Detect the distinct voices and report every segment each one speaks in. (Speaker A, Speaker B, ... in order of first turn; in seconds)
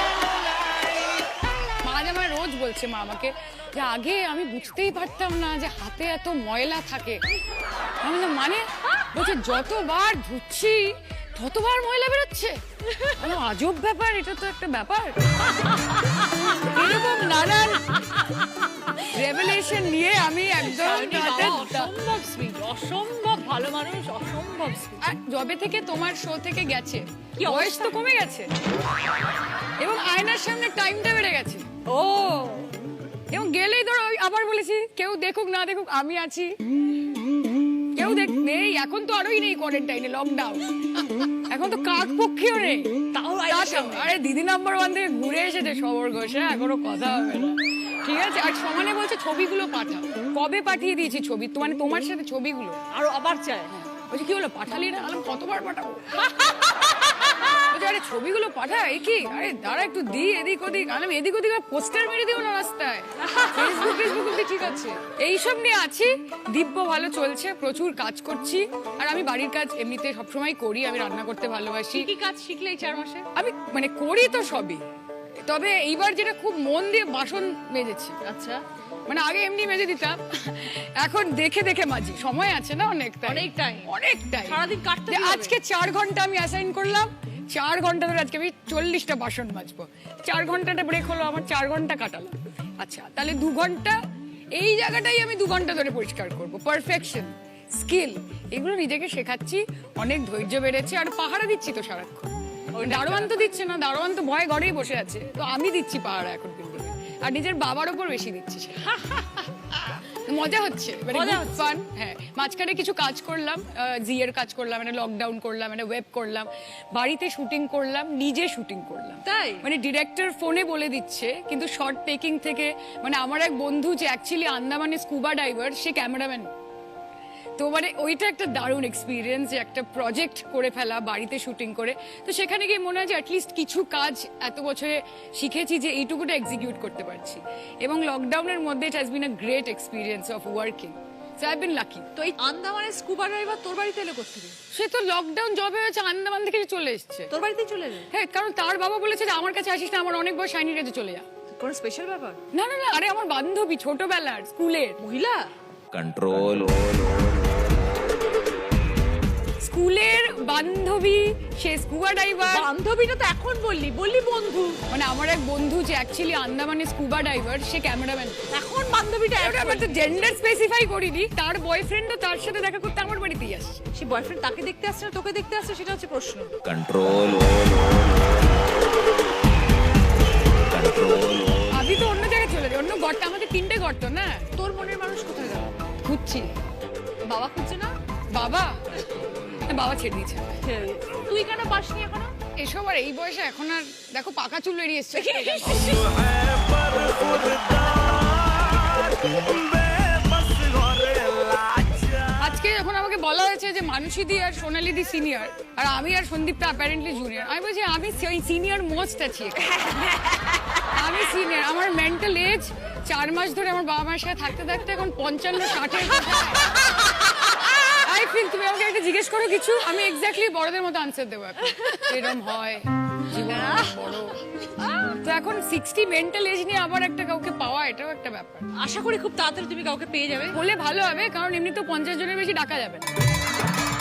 Speaker A: 1.8-7.2, 8.0-12.6, 13.2-15.2, 16.7-18.0, 19.1-21.9, 25.0-28.5, 29.8-31.6, 33.3-36.5, 38.0-40.7, 41.3-43.0, 43.5-52.8, 53.7-56.2, 57.7-72.1, 73.3-74.8, 75.5-78.2, 79.1-94.0, 94.5-102.3, 102.8-109.2, 109.9-126.5, 127.6-142.1, 144.7-147.3, 148.1-151.3, 152.5-155.0, 159.6-162.7, 164.9-168.4, 169.4-173.8, 181.7-184.4, 186.0-186.5, 188.3-188.8, 189.7-190.5, 192.6-196.0, 202.4-210.0, 210.9-216.8, 217.9-224.5, 225.2-228.7, 230.5-233.2
Speaker B: 20.6-25.0, 27.4-27.9, 31.9-32.7, 43.1-44.1, 52.9-53.7, 63.2-64.0, 71.9-73.3, 78.2-78.6, 83.3-83.9, 84.4-85.5, 102.7-103.3, 111.1-111.7, 119.2-119.7, 142.2-144.6, 147.3-148.1, 151.5-152.4, 155.0-155.5, 162.5-164.8, 168.5-169.9, 173.9-176.5, 184.6-185.7, 187.3-187.9, 190.6-192.3, 195.1-196.4, 197.0-198.4, 221.7-222.1, 223.4-225.2, 228.8-230.6
Speaker C: 155.9-157.1, 176.6-178.0, 180.7-181.8